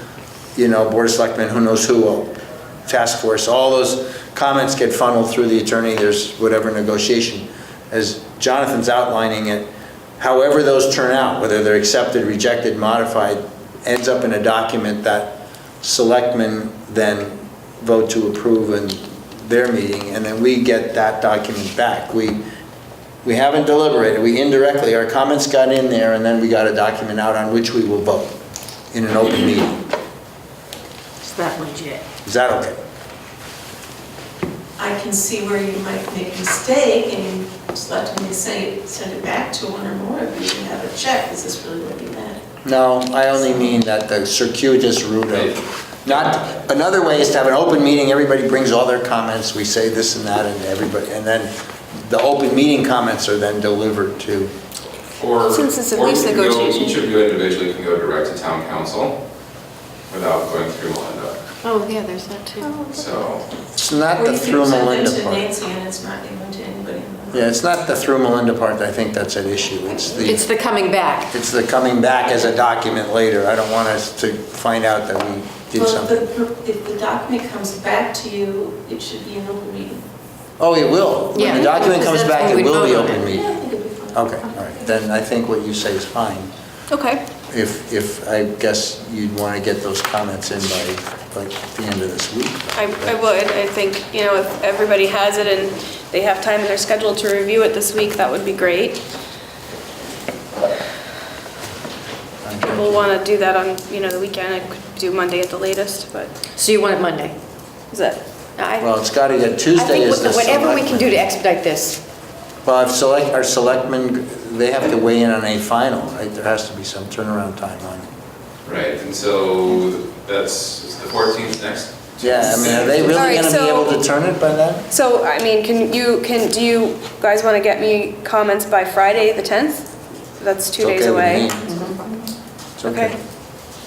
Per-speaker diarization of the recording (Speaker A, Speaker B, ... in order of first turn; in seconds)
Speaker A: 0.6-22.4, 23.2-28.4, 28.9-29.8, 32.2-32.8, 42.6-54.5, 63.8-65.5, 67.3-70.5, 71.3-76.2, 80.6-83.5, 84.1-86.5, 87.5-93.2, 102.4-103.1, 108.8-111.3, 112.6-118.1, 122.2-124.9, 130.8-131.9, 132.8-133.2
Speaker B: 31.2-32.0, 61.6-62.9, 70.2-71.3, 81.3-83.3, 106.5-107.3, 108.6-108.9, 109.7-112.0, 131.7-132.0
Speaker C: 34.8-42.4, 64.2-67.5, 75.8-80.0, 83.3-84.3
Speaker D: 45.3-46.7, 55.1-59.2, 60.1-61.4, 62.9-63.5, 118.6-123.3
Speaker E: 55.5-57.0, 86.9-87.2, 92.8-99.0, 102.6-106.3, 107.9-108.2, 123.1-124.0, 124.9-129.9, 130.4-131.5, 132.8-133.1